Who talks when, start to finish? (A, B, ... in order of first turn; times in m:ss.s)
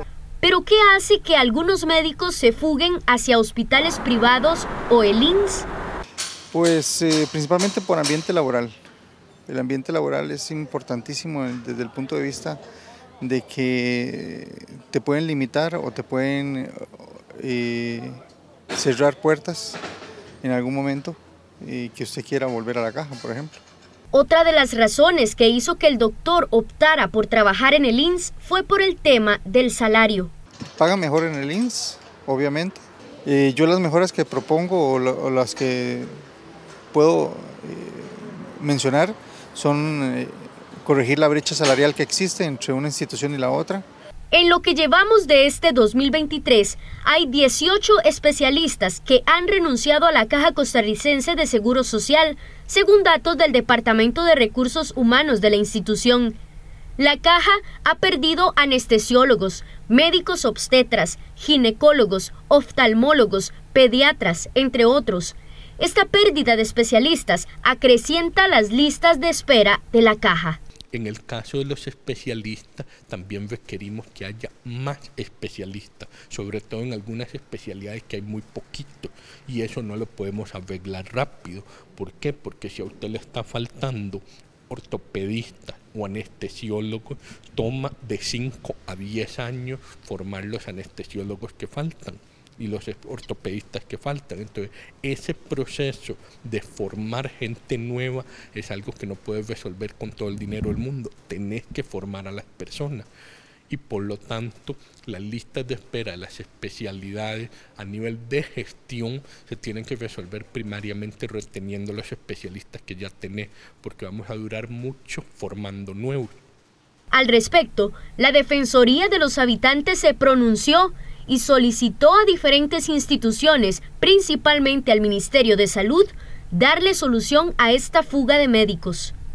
0:00.4-0:05.7 A
0:06.5-0:08.8 B
0:09.5-0:12.6 B
0:13.2-0:18.2 B
0:18.7-0:19.8 B
0:20.4-0:23.6 B
0:24.1-0:30.3 A
0:30.8-0:36.1 B
0:36.9-0:43.8 B
0:44.3-0:56.3 A
0:57.0-1:10.6 A
1:10.9-1:43.1 C
1:43.7-1:56.4 C
1:57.1-2:09.1 A